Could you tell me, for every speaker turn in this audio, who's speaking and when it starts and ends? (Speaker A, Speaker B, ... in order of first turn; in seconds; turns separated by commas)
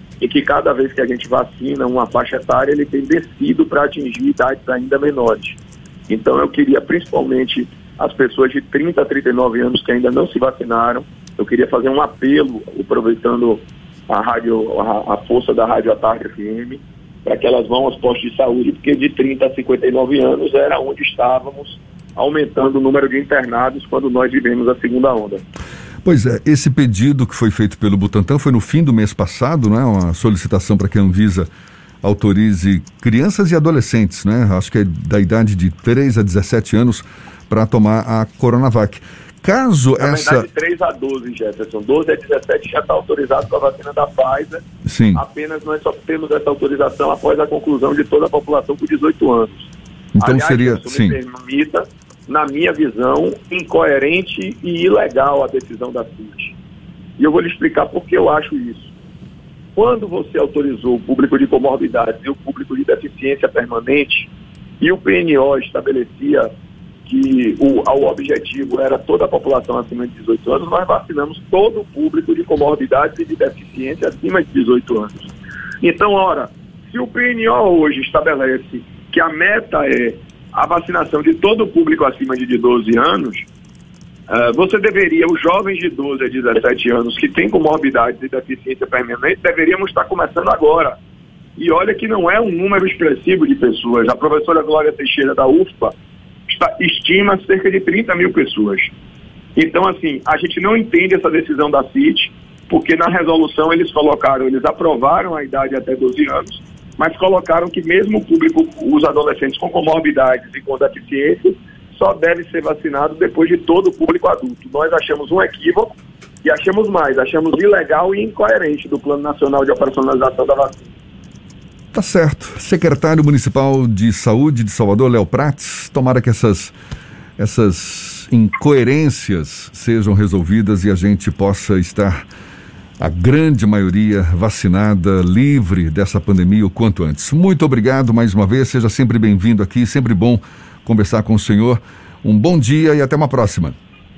Speaker A: 0.2-25.4, Speaker B: 26.0-31.5, Speaker B: 32.0-40.5, Speaker A: 40.0-56.6, Speaker B: 44.9-45.2, Speaker B: 50.1-51.2, Speaker A: 57.2-58.9, Speaker A: 59.8-64.3, Speaker A: 64.8-66.5, Speaker A: 67.1-83.5, Speaker A: 84.3-91.0, Speaker A: 91.6-95.9, Speaker A: 96.5-98.9, Speaker A: 99.6-120.9, Speaker B: 121.9-126.8, Speaker B: 127.4-132.2, Speaker B: 133.0-143.8